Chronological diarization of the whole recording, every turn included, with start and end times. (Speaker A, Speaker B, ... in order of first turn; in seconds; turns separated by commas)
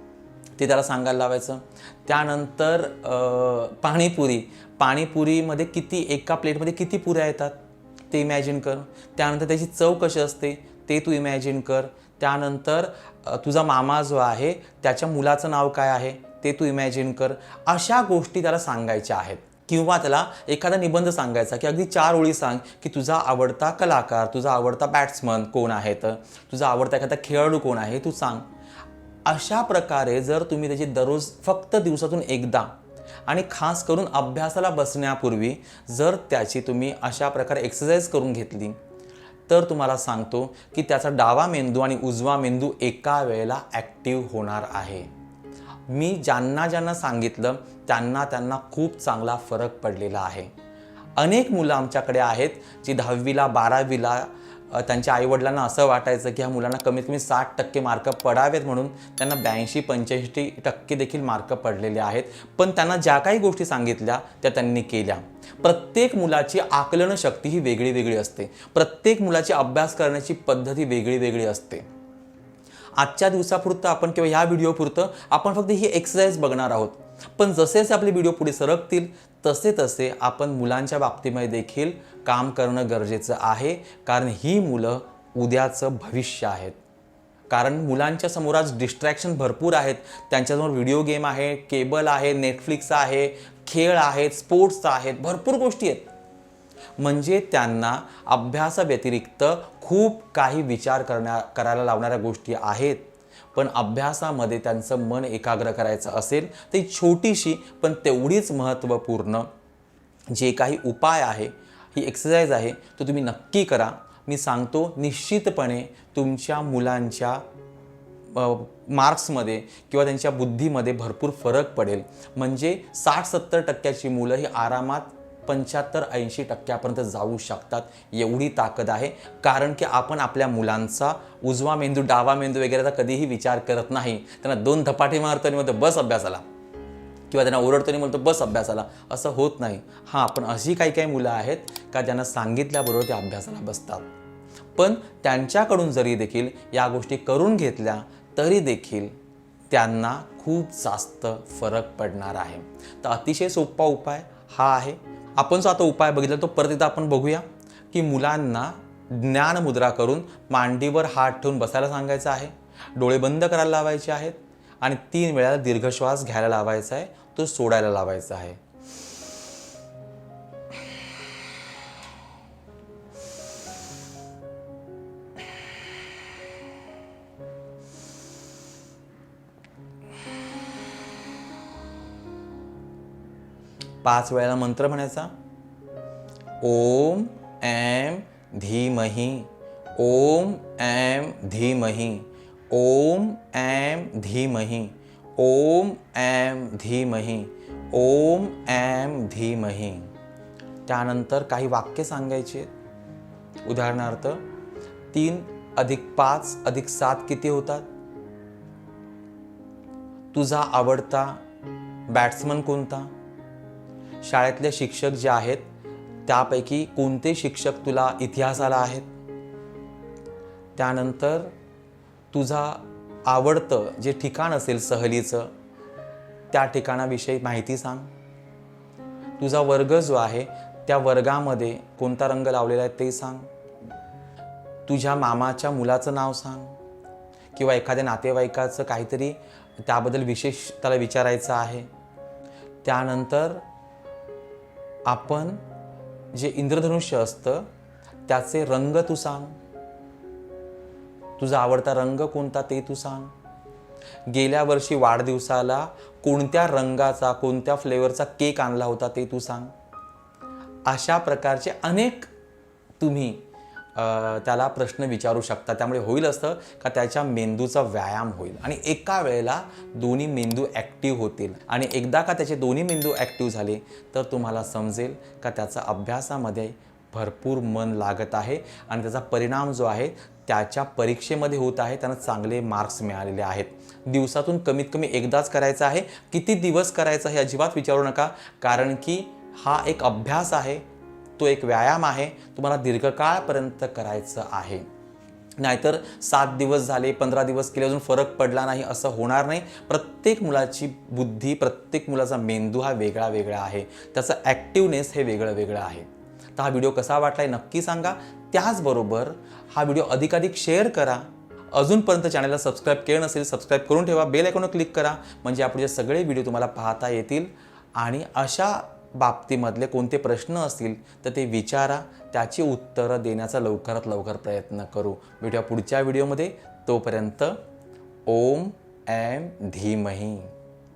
Speaker A: 0.6-7.5, Speaker A: 8.1-28.4, Speaker A: 29.2-32.7, Speaker A: 33.3-38.8, Speaker A: 39.5-45.1, Speaker A: 45.9-50.5, Speaker A: 51.2-71.8, Speaker A: 73.0-86.8, Speaker A: 87.5-96.1, Speaker A: 97.0-109.5, Speaker A: 110.3-117.4, Speaker A: 118.3-136.4, Speaker A: 137.3-144.1, Speaker A: 144.8-149.1, Speaker A: 149.7-168.6, Speaker A: 184.0-185.3, Speaker A: 186.6-200.1, Speaker A: 200.8-202.7, Speaker A: 203.6-204.4, Speaker A: 205.1-207.8, Speaker A: 210.3-211.4, Speaker A: 212.1-213.1, Speaker A: 214.2-215.6, Speaker A: 216.2-219.1, Speaker A: 220.8-221.5, Speaker A: 222.3-225.5, Speaker A: 226.5-228.1, Speaker A: 229.4-233.5, Speaker A: 234.9-236.7, Speaker A: 237.5-241.9, Speaker A: 242.8-243.6, Speaker A: 245.1-245.6, Speaker A: 246.3-247.7, Speaker A: 248.3-249.6, Speaker A: 251.4-253.3, Speaker A: 254.3-259.7, Speaker A: 260.9-262.3, Speaker A: 263.0-263.4, Speaker A: 263.9-290.8, Speaker A: 291.4-294.9, Speaker A: 295.6-327.6, Speaker A: 328.2-330.5